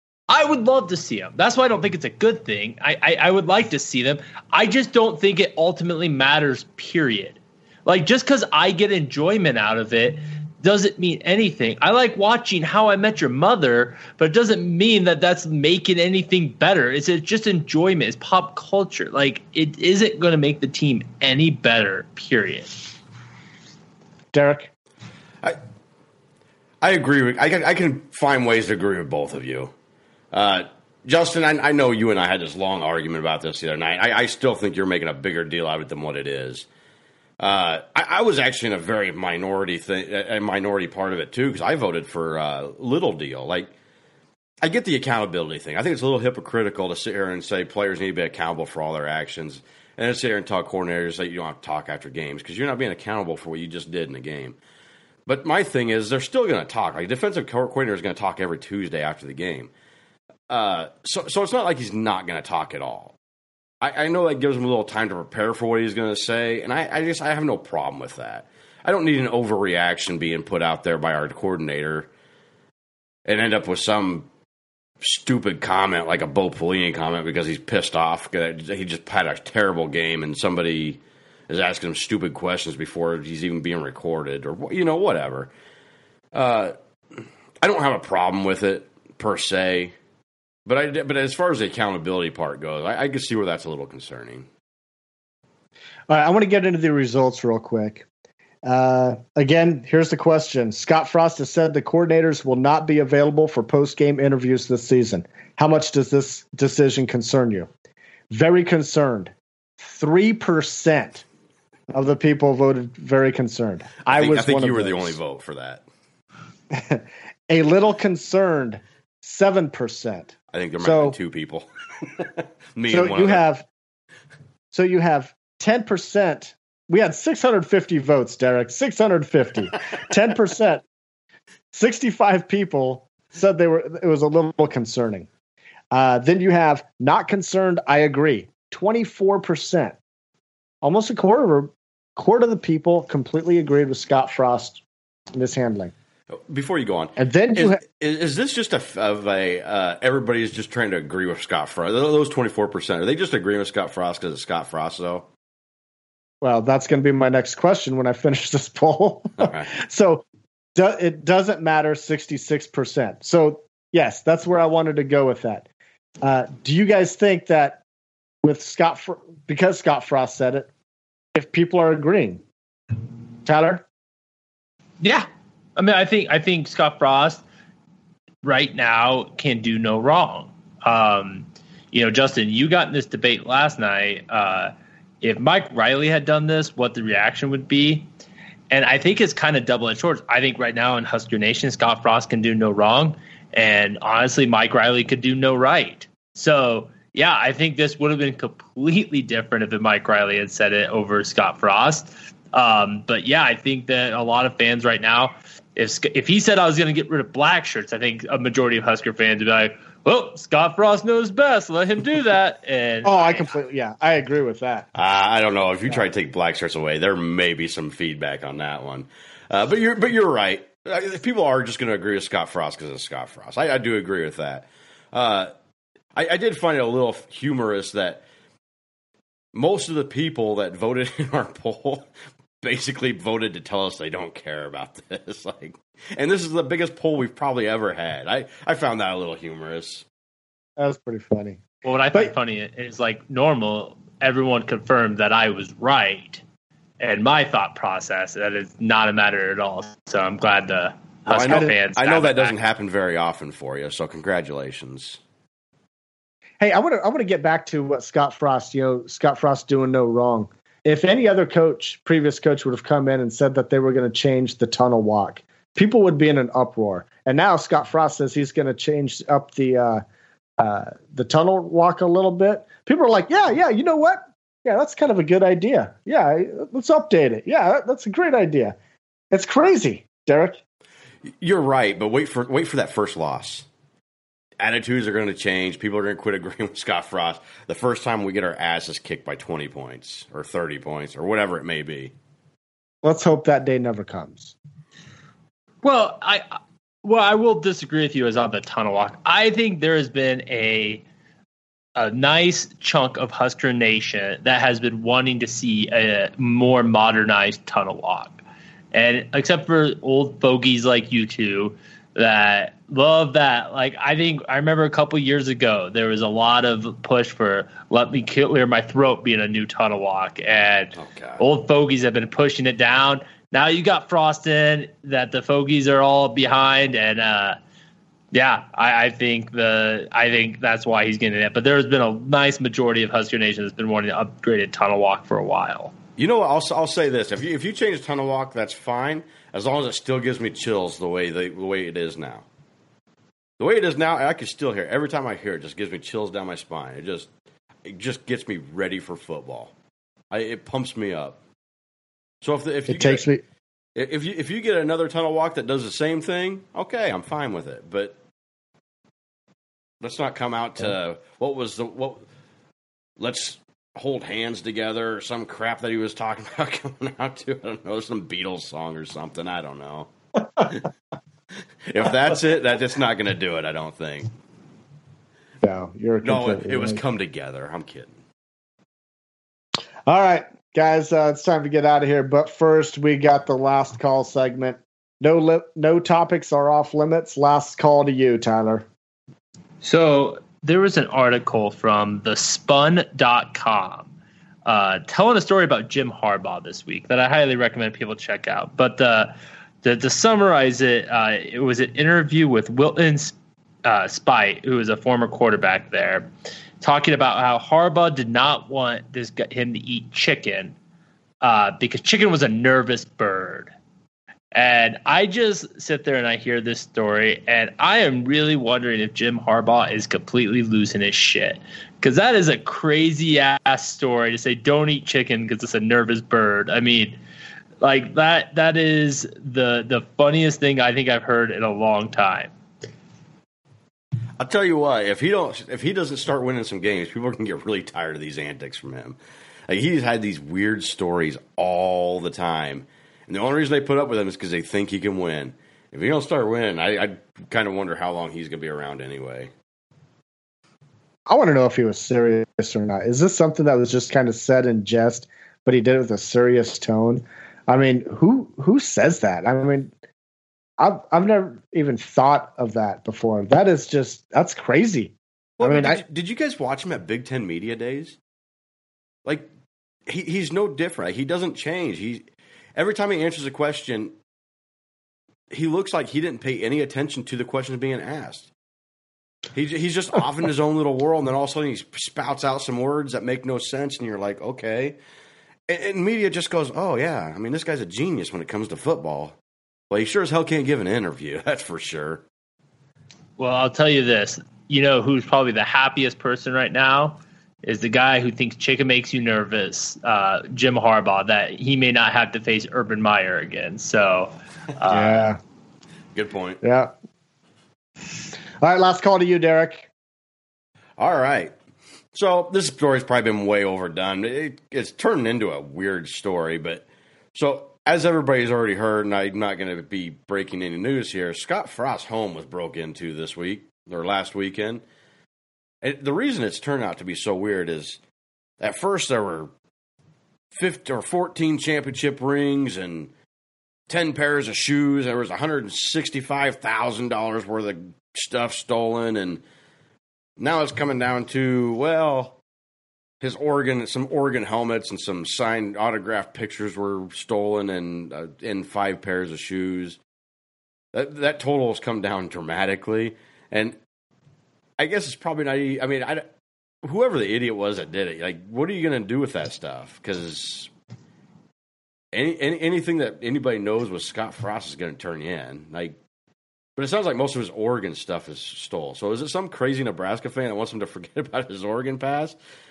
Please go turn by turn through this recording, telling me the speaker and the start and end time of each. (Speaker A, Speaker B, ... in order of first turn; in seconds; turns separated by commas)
Speaker A: 0.3-22.8, Speaker B: 24.3-24.7, Speaker C: 26.8-29.7, Speaker C: 30.3-36.6, Speaker C: 37.4-43.7, Speaker C: 44.6-54.6, Speaker C: 55.2-59.7, Speaker C: 60.5-63.1, Speaker C: 63.8-72.1, Speaker C: 73.2-74.3, Speaker C: 75.0-85.5, Speaker C: 86.3-90.0, Speaker C: 90.7-94.5, Speaker B: 96.1-98.0, Speaker B: 98.6-107.7, Speaker B: 108.3-111.2, Speaker B: 111.9-115.2, Speaker C: 114.1-115.8, Speaker B: 116.7-121.2, Speaker C: 120.5-123.4, Speaker B: 122.9-123.7, Speaker B: 124.7-130.8, Speaker B: 131.7-135.3, Speaker B: 135.9-139.9, Speaker B: 140.8-144.8, Speaker B: 145.3-145.9, Speaker C: 146.3-155.3, Speaker B: 147.2-147.8, Speaker B: 156.4-165.7, Speaker B: 166.2-167.8, Speaker B: 168.4-170.7, Speaker B: 171.3-172.4, Speaker B: 173.4-173.8, Speaker A: 175.0-177.4, Speaker A: 178.4-188.1, Speaker A: 188.7-213.5, Speaker B: 213.0-214.9, Speaker C: 214.9-225.5, Speaker C: 226.1-228.2, Speaker C: 229.5-232.1, Speaker C: 232.6-240.0, Speaker B: 240.8-241.6, Speaker A: 241.8-246.4, Speaker A: 247.0-252.5, Speaker C: 251.3-255.2, Speaker B: 256.6-270.0, Speaker B: 270.6-278.8, Speaker B: 279.3-280.6, Speaker C: 281.2-283.6, Speaker C: 284.6-292.1, Speaker B: 293.0-294.5, Speaker A: 295.8-301.0, Speaker A: 301.9-308.4, Speaker A: 308.9-327.6, Speaker C: 321.0-321.4, Speaker A: 328.3-335.9, Speaker C: 336.2-342.4, Speaker C: 343.6-347.3, Speaker C: 347.8-349.7, Speaker C: 350.3-351.4, Speaker C: 352.4-353.2, Speaker B: 352.9-353.4, Speaker C: 353.9-358.1, Speaker C: 360.0-362.2, Speaker C: 363.2-370.9, Speaker C: 371.9-374.3, Speaker B: 375.6-377.0, Speaker C: 376.2-378.1, Speaker B: 380.1-388.9, Speaker A: 389.8-394.1, Speaker A: 394.6-406.3, Speaker A: 406.8-410.8, Speaker A: 411.4-413.7, Speaker A: 414.5-427.2, Speaker A: 427.8-432.5, Speaker C: 434.4-449.5, Speaker B: 451.3-459.9, Speaker B: 460.8-466.0, Speaker C: 465.6-468.2, Speaker C: 470.1-472.2, Speaker C: 472.8-474.1, Speaker C: 475.5-478.5, Speaker C: 479.5-484.9, Speaker C: 485.7-489.4, Speaker C: 489.9-492.2, Speaker A: 493.4-505.2, Speaker B: 504.9-505.4, Speaker C: 506.1-506.6, Speaker B: 506.6-506.9, Speaker B: 508.6-509.9, Speaker C: 511.0-511.5, Speaker C: 512.1-524.8, Speaker C: 525.8-528.0, Speaker C: 528.6-529.5, Speaker C: 530.5-533.1, Speaker C: 533.9-539.4, Speaker C: 540.4-542.4, Speaker C: 543.2-550.0, Speaker C: 550.9-553.8, Speaker C: 554.8-556.2, Speaker C: 556.8-560.7, Speaker C: 562.1-566.0, Speaker C: 566.8-572.4